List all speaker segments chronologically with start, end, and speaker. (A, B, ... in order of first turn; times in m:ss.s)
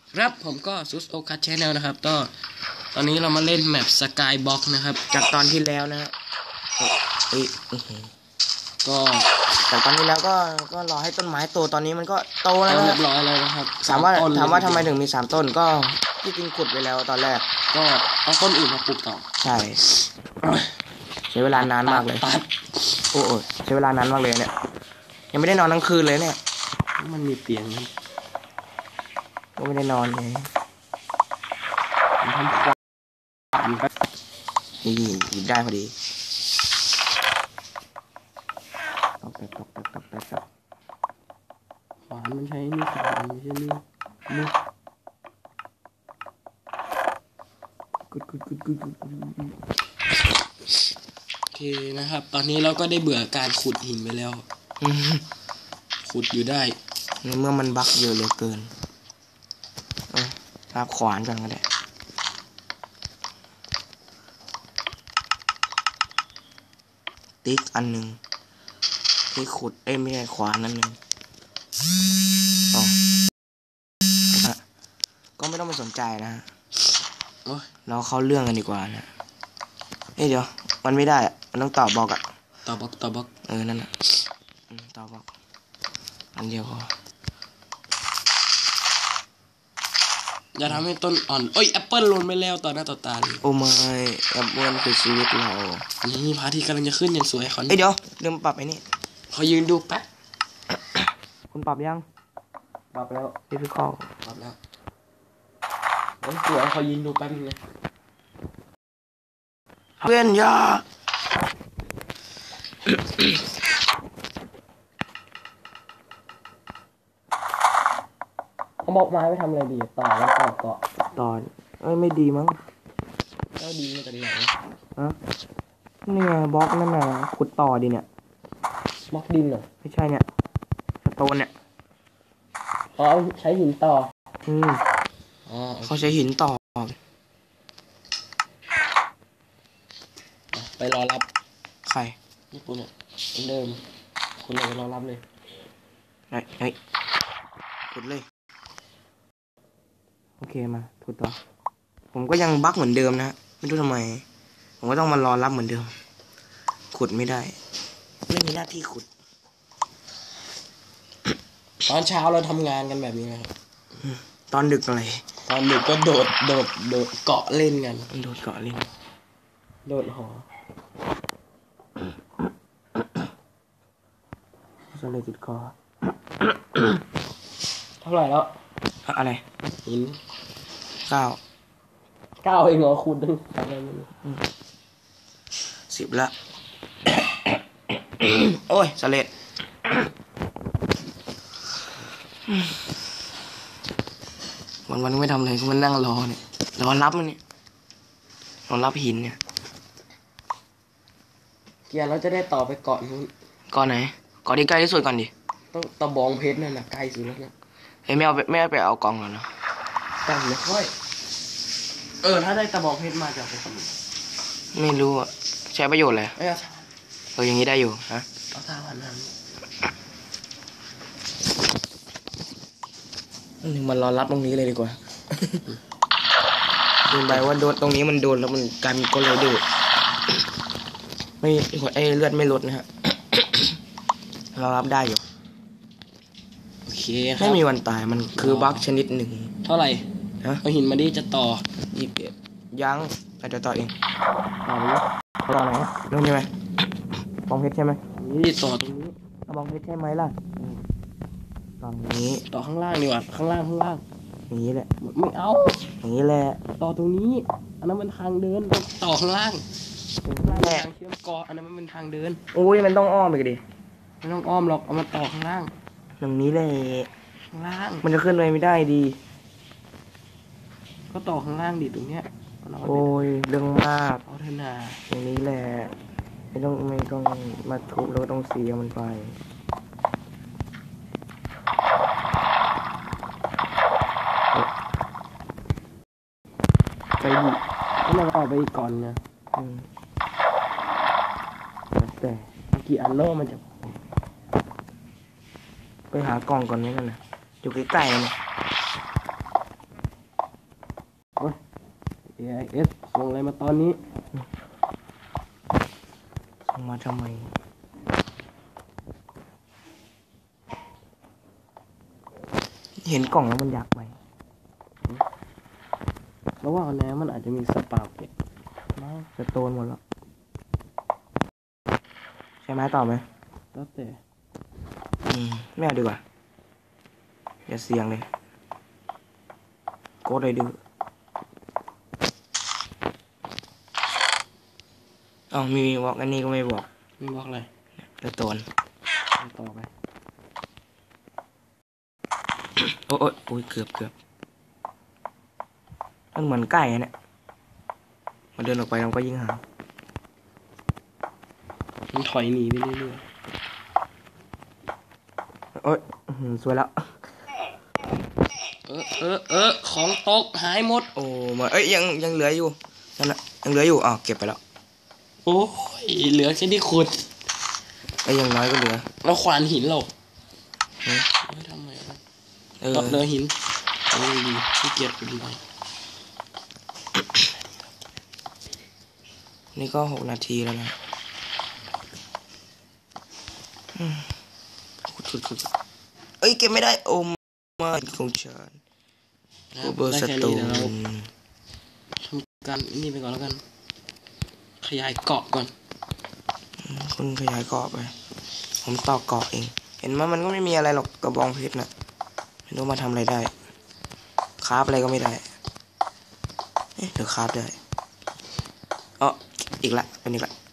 0:00.1-0:02.3 A
0:02.9-0:05.0 A
0:05.1-0:06.1 B
0:06.8-0:08.1 B
0:08.8-0:09.3 A
0:09.6-0:13.0 B
0:12.7-0:14.9 A
0:13.8-0:17.4 B
0:17.7-0:19.2 A
0:19.4-0:19.8 B
0:20.4-0:20.7 A
0:21.3-0:22.2 B
0:21.5-0:22.5 A
0:23.1-0:24.5 B
0:25.3-0:26.4 B
0:27.0-0:27.9 A
0:29.6-0:30.5 B
0:32.2-0:32.7 A
0:33.5-0:33.9 A
0:34.8-0:35.9 B
0:39.2-0:40.4 B
0:42.1-0:44.5 A
0:48.1-0:49.6 B
0:51.5-0:54.4 A
0:54.8-0:55.2 B
0:56.0-0:56.8 A
0:57.2-0:58.7 B
1:00.1-1:01.6 B
1:07.4-1:08.2 B
1:09.3-1:11.0 B
1:14.3-1:14.6 B
1:15.4-1:16.4 B
1:17.4-1:17.7 A
1:17.8-1:19.1 B
1:20.2-1:22.2 B
1:22.6-1:23.3 A
1:23.4-1:23.9 B
1:24.7-1:25.3 B
1:26.4-1:26.9 B
1:30.5-1:33.4 A
1:33.4-1:35.8 B
1:36.0-1:37.8 A
1:37.7-1:38.8 B
1:39.3-1:40.0 A
1:41.5-1:42.0 B
1:42.9-1:43.4 A
1:43.5-1:44.1 B
1:44.2-1:44.6 A
1:46.2-1:47.6 A
1:50.0-1:50.8 B
1:58.8-2:00.8 A
2:01.1-2:02.6 B
2:03.6-2:04.6 A
2:06.0-2:08.0 B
2:09.1-2:09.7 A
2:09.8-2:10.2 B
2:11.0-2:11.5 B
2:12.9-2:14.1 A
2:14.4-2:14.8 B
2:15.4-2:16.1 A
2:15.8-2:17.0 B
2:20.5-2:21.3 A
2:21.8-2:22.2 B
2:22.5-2:23.8 A
2:24.4-2:25.2 A
2:26.3-2:26.8 B
2:27.9-2:28.2 B
2:30.4-2:31.4 B
2:32.1-2:34.2 B
2:34.8-2:35.9 B
2:36.9-2:37.6 B
2:38.3-2:39.0 B
2:41.8-2:43.5 A
2:44.5-2:45.2 B
2:45.4-2:48.1 A
2:48.1-2:48.9 B
2:49.8-2:50.4 A
2:54.9-2:55.7 B
2:58.0-2:58.6 A
2:59.0-2:59.4 B
2:59.8-3:00.2 A
3:01.0-3:01.4 B
3:02.4-3:04.1 A
3:05.9-3:06.3 B
3:08.2-3:09.3 B
3:14.9-3:17.4 B
3:18.7-3:19.4 B
3:21.9-3:23.3 A
3:23.7-3:25.3 B
3:25.7-3:27.5 A
3:28.1-3:29.5 B
3:30.2-3:30.9 A
3:32.2-3:33.9 A
3:34.7-3:36.4 B
3:36.4-3:36.8 A
3:37.3-3:38.3 B
3:38.5-3:39.3 A
3:43.6-3:45.6 B
3:47.1-3:49.6 B
3:51.4-3:53.8 B
3:54.5-3:55.2 B
3:56.8-3:57.6 A
3:57.4-3:59.5 B
3:58.3-3:58.8 A
3:59.6-4:00.0 A
4:00.6-4:01.6 A
4:01.9-4:03.9 B
4:04.6-4:05.0 A
4:05.4-4:06.5 B
4:07.5-4:08.0 B
4:08.2-4:09.1 A
4:09.5-4:10.4 B
4:11.8-4:12.4 B
4:12.5-4:14.0 A
4:14.5-4:14.9 B
4:15.0-4:15.9 A
4:16.0-4:16.6 B
4:16.8-4:19.6 A
4:20.2-4:20.8 B
4:20.3-4:22.4 A
4:22.5-4:23.6 B
4:24.2-4:25.7 A
4:26.2-4:27.1 B
4:27.5-4:28.0 A
4:28.0-4:29.2 B
4:31.1-4:33.2 A
4:32.8-4:34.2 B
4:34.3-4:35.0 A
4:35.1-4:35.9 B
4:36.5-4:39.4 B
4:47.2-4:47.6 B
4:48.0-4:49.2 A
4:49.6-4:49.9 B
4:52.0-4:52.5 B
4:52.6-4:53.6 A
4:56.1-4:58.4 B
5:02.3-5:04.0 A
5:06.7-5:07.5 B
5:13.0-5:14.2 B
5:16.6-5:18.3 A
5:18.9-5:19.3 A
5:19.4-5:20.0 B
5:22.6-5:23.2 B
5:23.7-5:24.2 A
5:25.3-5:26.2 B
5:27.7-5:28.3 B
5:30.2-5:30.8 B
5:35.5-5:36.8 B
5:37.2-5:37.7 A
5:38.2-5:38.6 B
5:39.4-5:39.9 A
5:42.8-5:44.1 B
5:46.3-5:47.1 B
5:48.6-5:49.6 B
5:52.1-5:53.2 A
5:55.8-5:57.1 B
5:58.9-6:01.1 A
6:01.1-6:04.6 B
6:05.4-6:07.2 A
6:08.2-6:09.1 B
6:09.2-6:10.1 A
6:11.4-6:12.2 A
6:12.8-6:13.2 B
6:12.9-6:13.6 A
6:14.1-6:15.6 A
6:19.7-6:21.0 B
6:23.9-6:24.3 B
6:25.0-6:25.7 B
6:26.4-6:28.8 B
6:29.7-6:30.9 A
6:29.8-6:31.3 B
6:32.2-6:33.6 A
6:34.8-6:35.7 A
6:36.8-6:38.1 B
6:38.8-6:41.9 B
6:42.7-6:43.5 B
6:44.6-6:45.4 B
6:47.0-6:47.8 B
6:49.2-6:50.5 B